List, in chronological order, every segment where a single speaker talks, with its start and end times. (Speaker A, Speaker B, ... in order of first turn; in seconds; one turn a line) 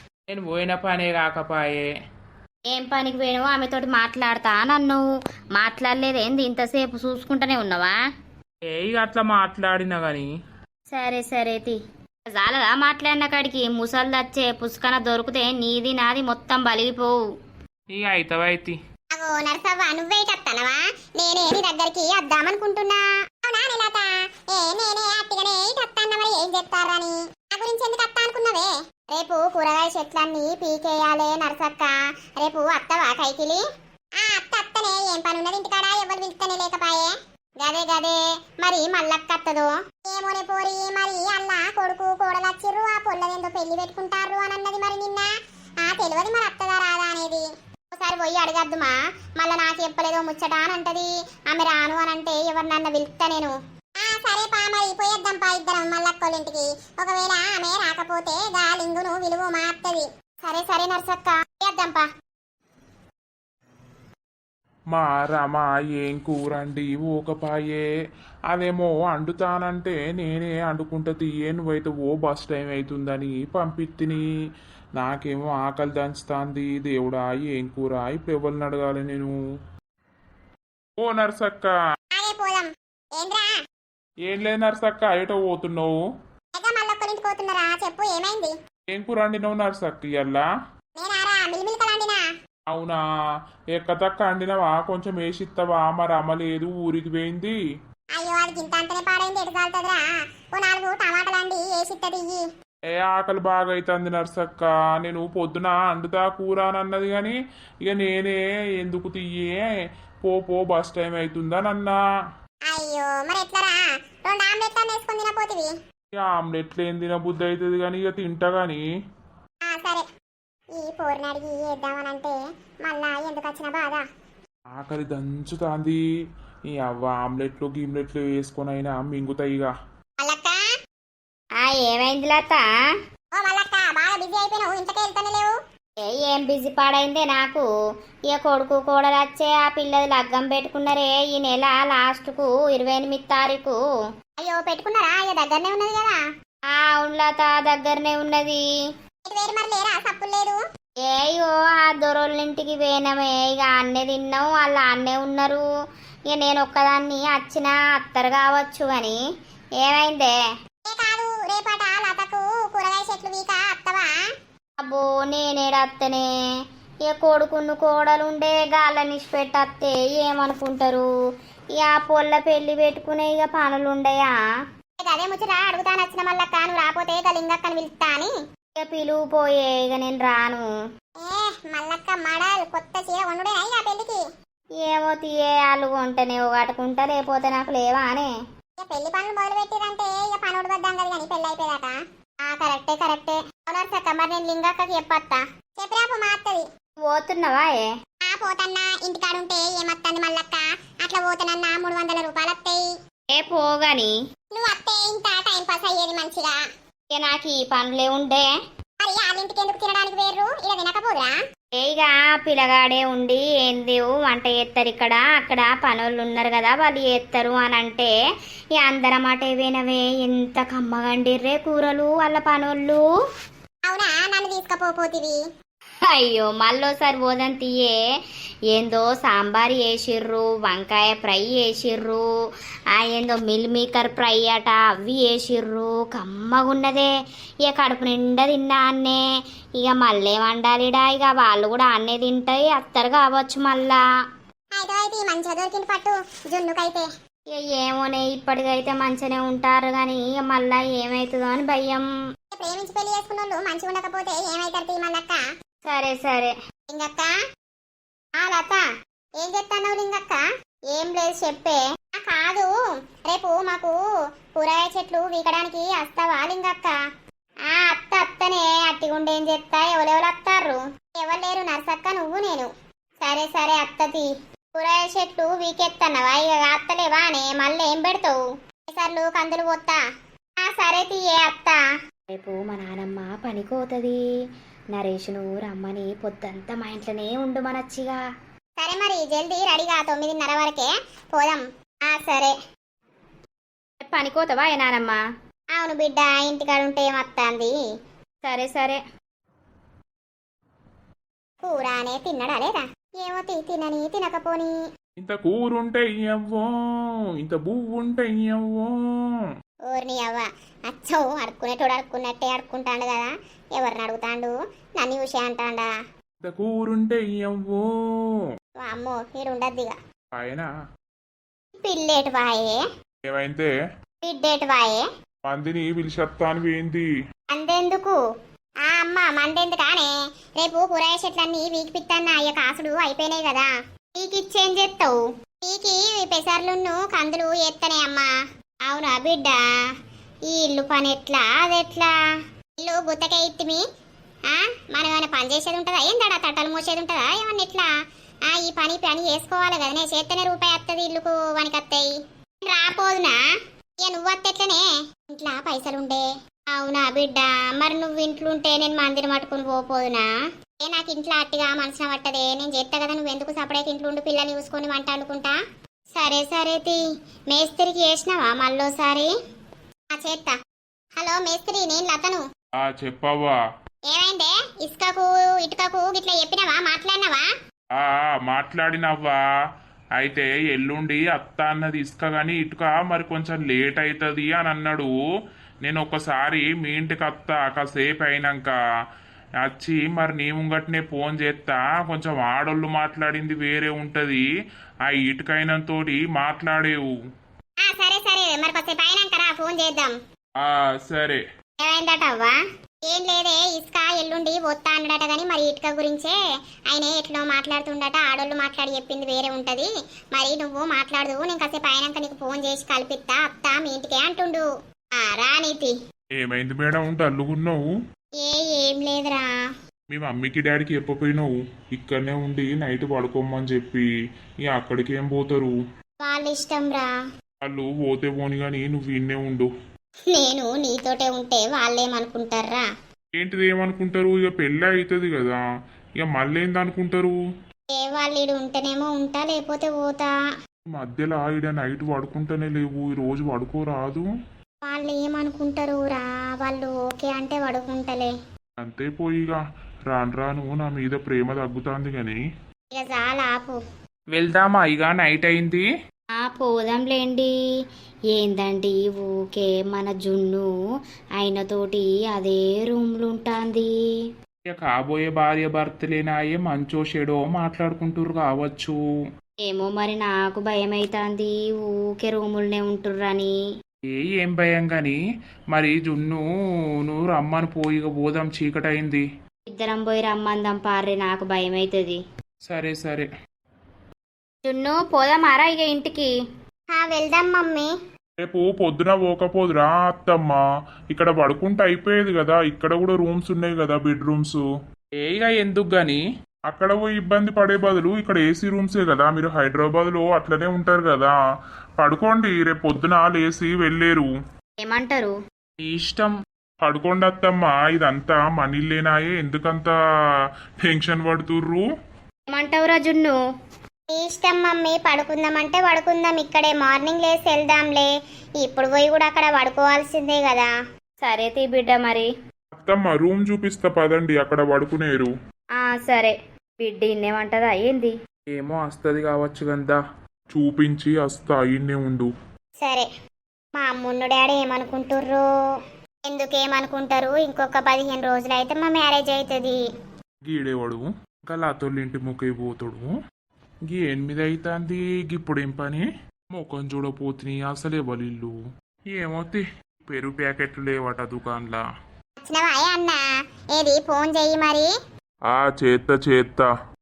Speaker A: 0.3-1.9
Speaker B: 2.7-5.0
Speaker B: 5.5-7.9
Speaker A: 8.7-10.3
Speaker B: 10.9-11.8
Speaker B: 12.3-17.1
Speaker A: 17.9-18.8
Speaker C: 19.1-33.6
Speaker C: 34.2-45.3
Speaker C: 45.8-47.4
Speaker C: 48.0-62.0
Speaker D: 64.9-67.8
Speaker D: 68.5-74.2
Speaker D: 75.0-79.3
Speaker D: 81.0-81.8
Speaker C: 82.2-83.5
Speaker D: 84.2-85.9
Speaker C: 86.6-88.5
Speaker D: 88.9-90.4
Speaker C: 91.0-92.2
Speaker D: 92.7-93.0
Speaker D: 93.7-97.5
Speaker C: 98.2-100.0
Speaker C: 100.5-102.4
Speaker D: 102.9-109.6
Speaker D: 110.2-112.0
Speaker C: 112.7-115.7
Speaker D: 116.1-118.8
Speaker C: 119.7-120.0
Speaker C: 120.8-124.0
Speaker D: 124.7-126.0
Speaker D: 126.7-129.7
Speaker C: 130.2-130.6
Speaker B: 131.6-132.7
Speaker C: 133.4-135.5
Speaker B: 136.0-137.7
Speaker B: 138.3-143.8
Speaker C: 144.4-146.2
Speaker B: 146.7-148.6
Speaker C: 149.3-150.6
Speaker B: 151.0-155.6
Speaker B: 156.3-159.2
Speaker B: 159.8-160.3
Speaker C: 160.9-164.1
Speaker B: 164.8-166.2
Speaker B: 167.1-171.1
Speaker B: 171.8-174.3
Speaker C: 175.0-178.3
Speaker B: 178.8-180.6
Speaker C: 181.2-184.2
Speaker B: 184.8-188.3
Speaker C: 188.8-196.6
Speaker B: 197.0-197.9
Speaker C: 198.2-202.8
Speaker B: 203.3-204.1
Speaker C: 204.5-206.6
Speaker B: 207.1-208.4
Speaker C: 209.0-211.4
Speaker B: 211.8-218.1
Speaker B: 218.8-223.0
Speaker C: 223.9-225.3
Speaker B: 226.1-228.0
Speaker B: 228.7-232.2
Speaker B: 232.9-237.1
Speaker B: 237.6-239.2
Speaker B: 239.8-244.0
Speaker C: 244.8-247.1
Speaker B: 247.5-252.0
Speaker C: 252.6-255.4
Speaker B: 255.9-256.5
Speaker C: 256.9-257.3
Speaker C: 258.4-258.8
Speaker C: 259.4-260.4
Speaker C: 260.9-262.7
Speaker C: 263.2-264.0
Speaker C: 264.5-266.9
Speaker C: 267.7-272.7
Speaker C: 273.2-278.4
Speaker C: 278.9-280.0
Speaker C: 280.6-281.8
Speaker B: 282.3-284.2
Speaker B: 284.9-288.2
Speaker C: 288.8-292.5
Speaker B: 294.0-295.2
Speaker C: 295.8-297.7
Speaker B: 298.4-299.0
Speaker C: 301.6-304.7
Speaker D: 305.2-309.5
Speaker C: 309.9-315.9
Speaker D: 316.4-318.4
Speaker C: 318.8-319.9
Speaker D: 320.4-320.7
Speaker C: 321.8-322.8
Speaker D: 323.2-323.7
Speaker C: 324.2-325.1
Speaker D: 325.4-327.1
Speaker C: 327.5-328.2
Speaker C: 328.9-338.3
Speaker C: 338.9-339.6
Speaker C: 340.5-342.1
Speaker C: 342.8-343.8
Speaker C: 344.5-347.9
Speaker C: 348.5-352.1
Speaker C: 352.6-353.4
Speaker C: 354.0-360.3
Speaker C: 360.8-365.6
Speaker C: 366.2-367.0
Speaker C: 367.5-369.3
Speaker C: 370.2-370.5
Speaker C: 371.2-372.4
Speaker D: 372.8-373.6
Speaker C: 374.1-377.4
Speaker D: 377.9-379.4
Speaker D: 380.2-385.1
Speaker D: 385.8-388.8
Speaker D: 389.6-394.4
Speaker D: 395.1-397.1
Speaker C: 397.8-400.1
Speaker D: 400.6-401.4
Speaker C: 401.8-402.5
Speaker C: 403.1-406.4
Speaker C: 406.9-414.6
Speaker C: 415.2-415.9
Speaker D: 416.4-417.8
Speaker C: 418.4-419.5
Speaker D: 420.1-424.1
Speaker D: 424.6-425.7
Speaker C: 426.2-427.1
Speaker D: 427.6-429.7
Speaker C: 430.3-432.9
Speaker D: 433.4-435.6
Speaker D: 436.2-437.3
Speaker C: 437.9-440.3
Speaker D: 440.9-444.3
Speaker C: 444.9-448.3
Speaker D: 448.8-452.4
Speaker C: 452.9-453.8
Speaker D: 454.4-455.8
Speaker B: 456.4-457.5
Speaker B: 458.3-460.7
Speaker B: 461.4-463.9
Speaker A: 464.8-468.9
Speaker D: 464.9-465.4
Speaker B: 469.6-473.5
Speaker A: 474.2-475.1
Speaker A: 475.8-476.4
Speaker A: 477.1-479.2
Speaker B: 479.7-482.2
Speaker A: 482.7-483.2
Speaker B: 484.6-486.3
Speaker C: 486.9-487.9
Speaker D: 488.4-494.6
Speaker D: 495.2-495.7
Speaker A: 495.3-496.2
Speaker D: 496.7-501.3
Speaker D: 502.0-504.3
Speaker B: 504.8-505.3
Speaker A: 505.9-506.2
Speaker D: 505.9-506.2
Speaker D: 506.8-509.9
Speaker D: 510.8-511.8
Speaker B: 512.5-513.4
Speaker C: 514.1-520.7
Speaker B: 521.2-522.3
Speaker D: 522.7-525.3
Speaker B: 525.8-528.1
Speaker A: 528.5-530.0
Speaker D: 530.5-532.3
Speaker C: 533.8-535.4
Speaker C: 536.3-539.8
Speaker D: 540.5-543.1
Speaker D: 543.9-546.0
Speaker D: 546.5-548.5
Speaker D: 549.1-551.8
Speaker C: 552.4-553.2
Speaker C: 553.8-554.9
Speaker D: 555.5-556.7